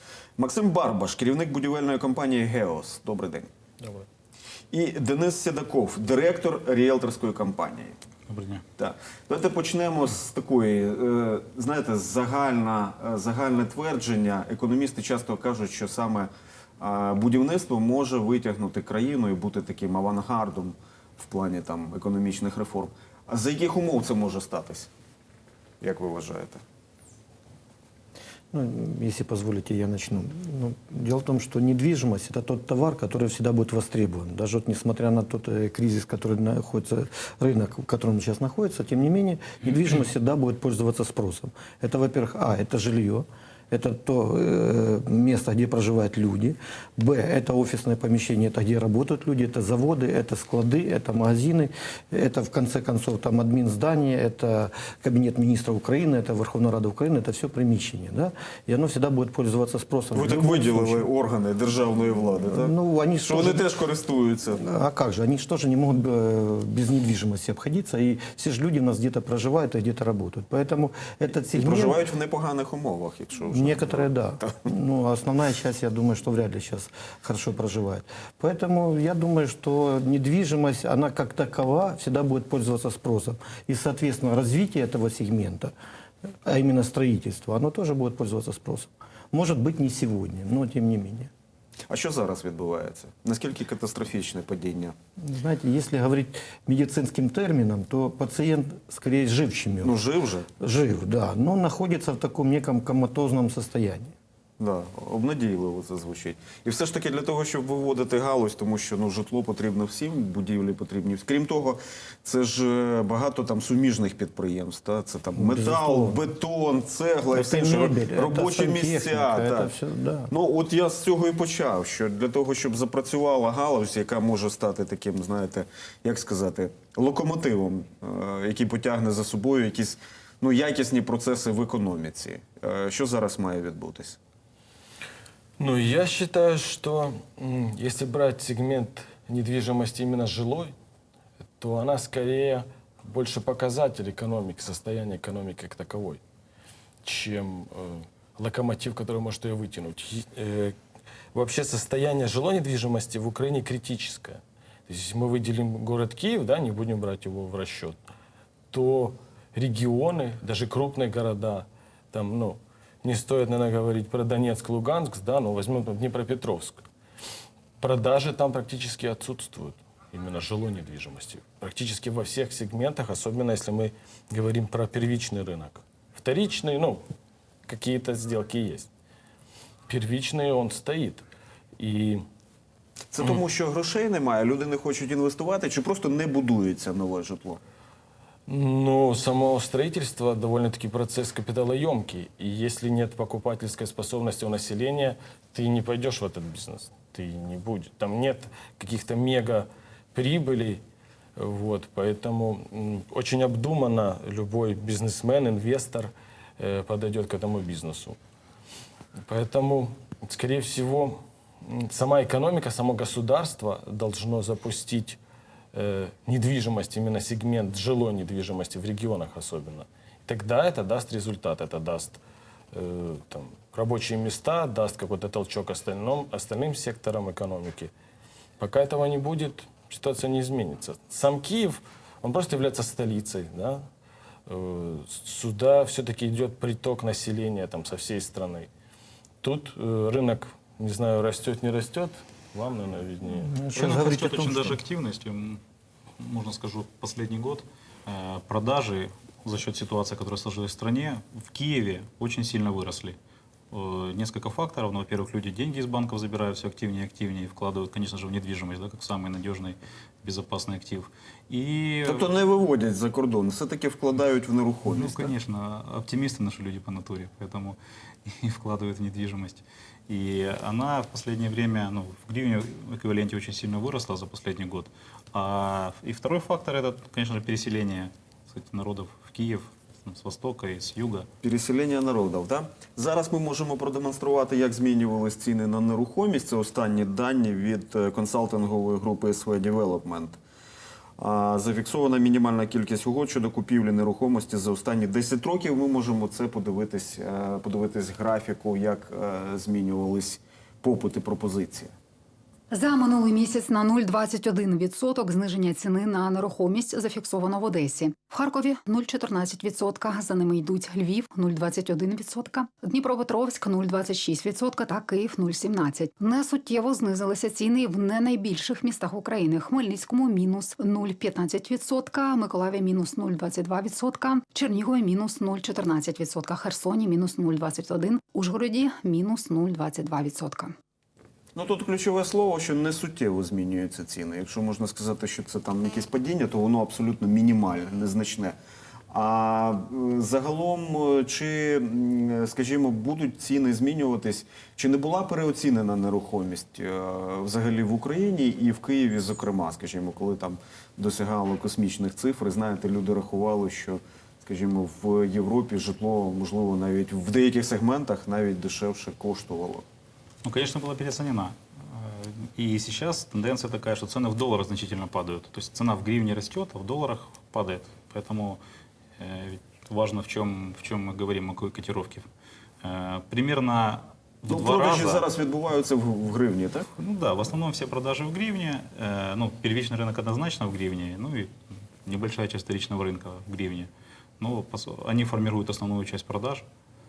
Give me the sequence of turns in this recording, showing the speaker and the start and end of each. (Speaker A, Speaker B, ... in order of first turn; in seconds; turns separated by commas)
Speaker A: 0.4-3.5, Speaker A: 4.7-8.0, Speaker B: 8.3-8.6, Speaker A: 8.8-24.9, Speaker A: 25.8-26.6, Speaker C: 28.5-61.1, Speaker A: 60.1-64.6, Speaker C: 62.5-63.6, Speaker C: 64.6-72.0, Speaker A: 71.5-74.5, Speaker C: 73.5-85.7, Speaker C: 86.5-91.3, Speaker A: 91.9-94.9, Speaker C: 95.2-100.0, Speaker A: 99.8-100.5, Speaker C: 100.6-104.1, Speaker A: 104.6-119.7, Speaker C: 115.4-116.2, Speaker C: 117.3-120.3, Speaker A: 120.3-134.2, Speaker D: 135.6-140.7, Speaker D: 141.6-146.2, Speaker D: 147.0-150.8, Speaker D: 151.3-158.0, Speaker D: 158.7-166.8, Speaker D: 167.8-177.0, Speaker D: 177.7-178.9, Speaker D: 179.9-181.2, Speaker D: 181.8-182.2, Speaker A: 183.1-187.6, Speaker D: 188.5-200.8, Speaker D: 201.4-208.2, Speaker D: 209.2-215.2, Speaker D: 215.7-222.2, Speaker D: 222.7-227.9, Speaker D: 228.6-233.8, Speaker D: 234.5-238.7, Speaker D: 239.4-243.6, Speaker C: 243.3-244.8, Speaker B: 243.8-245.6, Speaker B: 246.2-253.2, Speaker B: 253.7-262.3, Speaker A: 262.1-265.3, Speaker B: 264.9-281.3, Speaker A: 281.4-290.4, Speaker A: 291.2-301.9, Speaker E: 302.7-330.7, Speaker A: 331.6-338.6, Speaker A: 339.1-359.8, Speaker B: 360.4-368.6, Speaker B: 369.2-372.3, Speaker B: 372.8-375.3, Speaker A: 374.5-376.9, Speaker B: 376.9-386.7